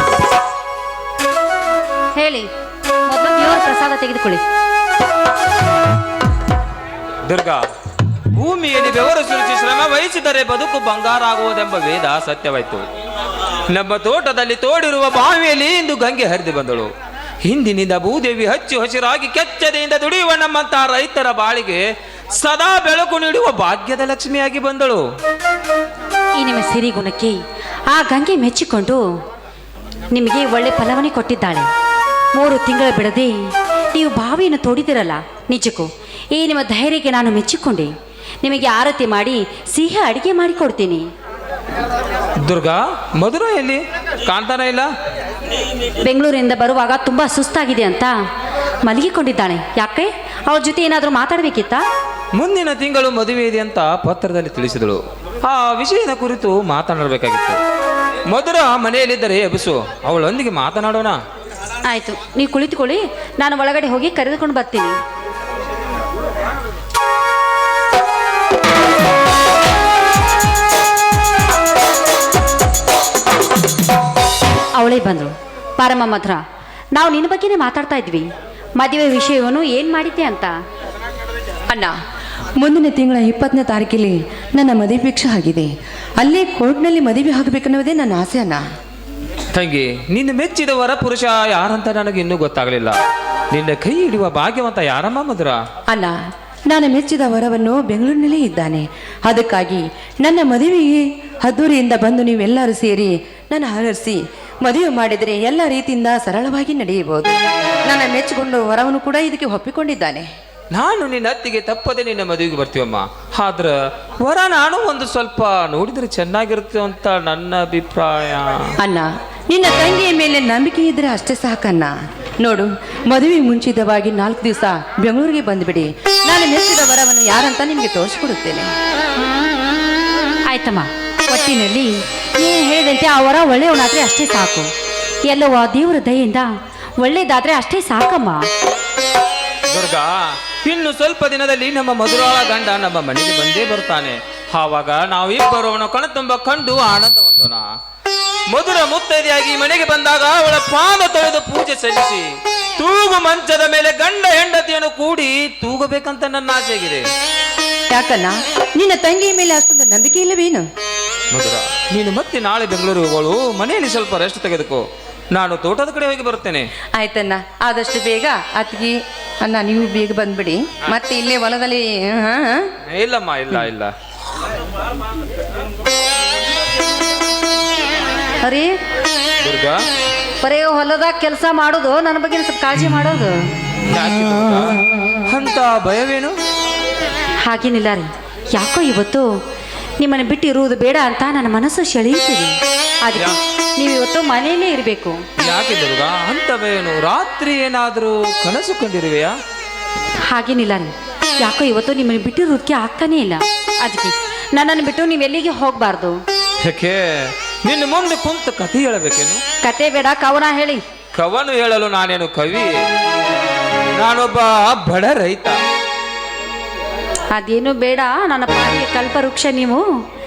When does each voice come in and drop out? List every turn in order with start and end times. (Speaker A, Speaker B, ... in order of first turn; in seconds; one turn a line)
Speaker A: 2.1-2.5
Speaker A: 3.1-4.4
Speaker B: 7.2-7.7
Speaker B: 8.3-12.8
Speaker B: 13.7-16.9
Speaker B: 17.4-21.8
Speaker B: 22.4-25.0
Speaker A: 26.4-27.4
Speaker A: 27.9-29.0
Speaker A: 30.1-31.7
Speaker A: 32.4-37.9
Speaker A: 38.4-41.1
Speaker B: 42.4-44.9
Speaker A: 46.0-48.1
Speaker A: 48.8-51.8
Speaker B: 52.4-57.6
Speaker B: 58.3-61.2
Speaker A: 61.9-65.0
Speaker A: 74.7-76.4
Speaker A: 76.9-78.3
Speaker A: 78.8-80.5
Speaker C: 81.7-82.0
Speaker C: 82.6-88.6
Speaker B: 89.5-93.0
Speaker B: 93.5-95.6
Speaker C: 95.9-96.2
Speaker C: 96.7-110.3
Speaker B: 110.7-118.7
Speaker C: 118.8-128.7
Speaker A: 130.5-134.7
Speaker A: 135.3-138.4
Speaker B: 139.7-147.7
Speaker B: 148.5-157.1
Speaker C: 157.9-160.7
Speaker B: 161.3-166.7
Speaker C: 166.9-172.7
Speaker B: 172.9-173.9
Speaker A: 178.4-178.7
Speaker B: 179.4-179.8
Speaker A: 180.4-183.4
Speaker B: 183.8-186.4
Speaker A: 187.4-189.3
Speaker A: 190.0-195.2
Speaker B: 195.4-199.3
Speaker A: 200.3-206.2
Speaker B: 206.6-209.4
Speaker A: 209.6-210.8
Speaker B: 211.1-212.8
Speaker B: 213.9-215.6
Speaker A: 217.3-219.8